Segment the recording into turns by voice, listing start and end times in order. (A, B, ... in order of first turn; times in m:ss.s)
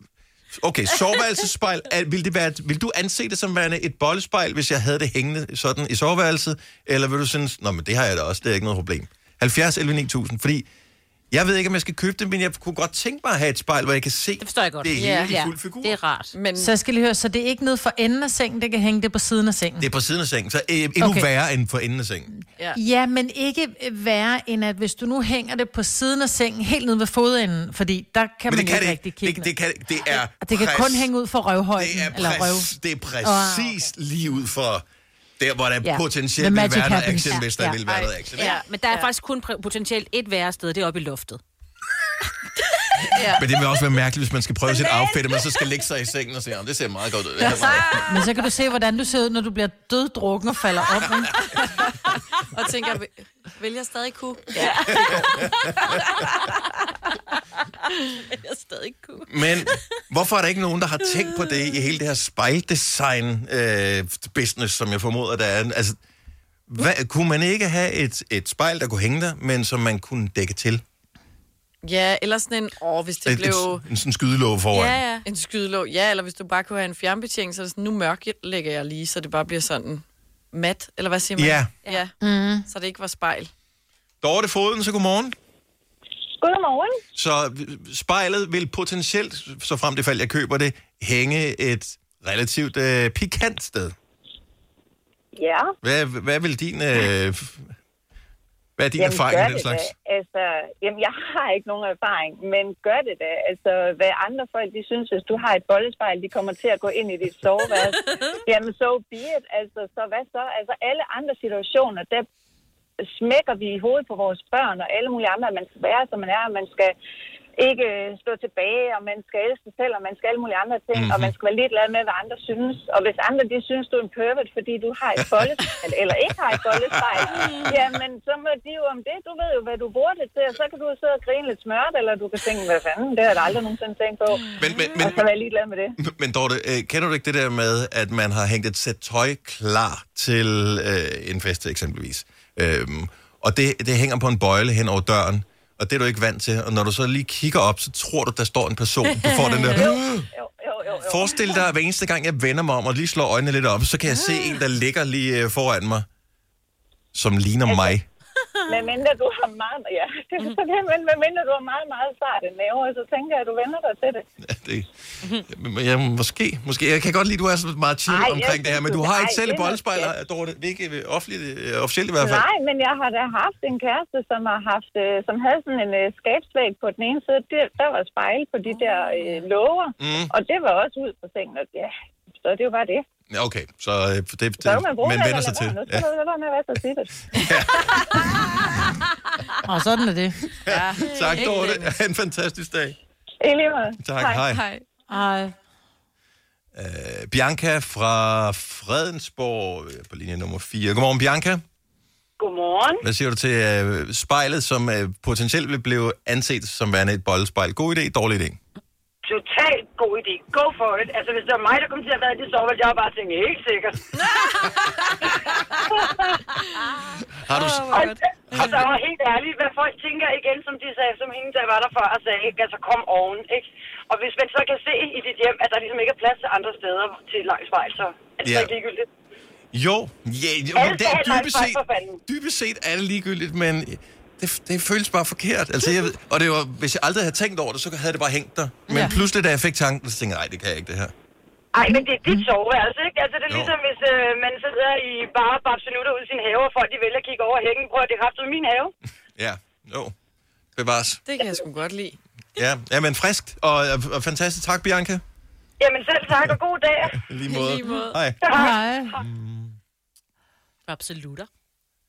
0:00.5-0:10.7 A
0:11.3-0:16.0 A
0:14.4-0:16.4 B
0:14.9-0:15.4 C
0:16.3-0:16.7 C
0:16.6-0:19.9 D
0:19.8-0:22.3 A
0:21.0-0:21.3 D
0:22.4-0:29.5 D
0:28.5-0:31.1 A
0:30.1-0:33.7 D
0:31.8-0:34.8 A
0:35.4-0:38.6 A
0:35.8-0:37.8 D
0:37.8-0:39.1 C
0:38.5-0:41.4 B
0:43.1-0:43.4 C
0:43.3-0:48.0 A
0:47.4-0:48.3 C
0:47.9-0:51.4 D
0:51.6-0:55.5 C
0:54.6-0:55.5 B
0:54.9-0:55.2 A
0:56.1-0:56.7 B
0:58.3-0:59.8 B
0:59.3-1:06.0 A
1:01.0-1:01.6 B
1:06.7-1:10.8 A
1:11.8-1:13.8 C
1:13.2-1:15.0 A
1:14.7-1:15.3 B
1:15.2-1:22.2 C
1:21.4-1:21.7 A
1:22.2-1:22.7 D
1:22.7-1:23.5 C
1:24.2-1:25.3 A
1:26.4-1:27.0 E
1:27.1-1:34.0 A
1:35.4-1:35.7 E
1:35.8-1:37.6 A
1:38.8-1:39.9 A
1:39.0-1:52.3 E
1:53.0-1:57.0 E
1:57.6-2:16.0 E
2:00.9-2:01.3 A
2:06.6-2:07.8 A
2:14.6-2:15.2 A
2:16.0-2:30.3 A
2:29.2-2:29.8 B
2:30.6-2:31.4 E
2:31.0-2:36.1 A
2:34.3-2:34.6 B
2:37.1-2:38.1 A
2:37.7-2:38.0 E
2:38.7-2:44.2 E
2:44.4-2:52.5 A
2:48.1-2:50.1 E
2:52.2-3:03.0 E
3:00.0-3:00.3 A
3:03.3-3:06.0 A
3:04.6-3:07.3 E
3:07.3-3:08.8 A
3:09.6-3:10.6 D
3:10.6-3:12.0 C
3:10.6-3:13.0 A
3:13.4-3:14.4 E
3:14.0-3:14.6 A
3:14.4-3:14.9 C
3:15.1-3:15.6 D
3:16.8-3:21.6 A
3:23.0-3:28.6 A
3:29.3-3:34.0 F
3:34.3-3:35.1 C
3:37.4-3:38.9 A
3:37.5-3:38.9 C
3:39.2-3:48.2 F
3:48.4-3:48.8 A
3:48.4-3:49.0 B
3:49.7-4:01.1 A
3:51.4-3:52.2 B
3:51.6-3:51.9 F
4:01.8-4:02.4 D
4:01.9-4:03.4 F
4:03.5-4:03.8 A
4:04.0-4:08.9 F
4:09.4-4:10.1 A
4:10.8-4:11.2 A
4:11.3-4:12.2 C
4:12.6-4:15.2 A
4:15.8-4:17.1 B
4:16.3-4:18.5 A
4:17.5-4:18.3 C
4:18.5-4:19.2 D
4:19.2-4:19.8 A
4:20.9-4:21.5 B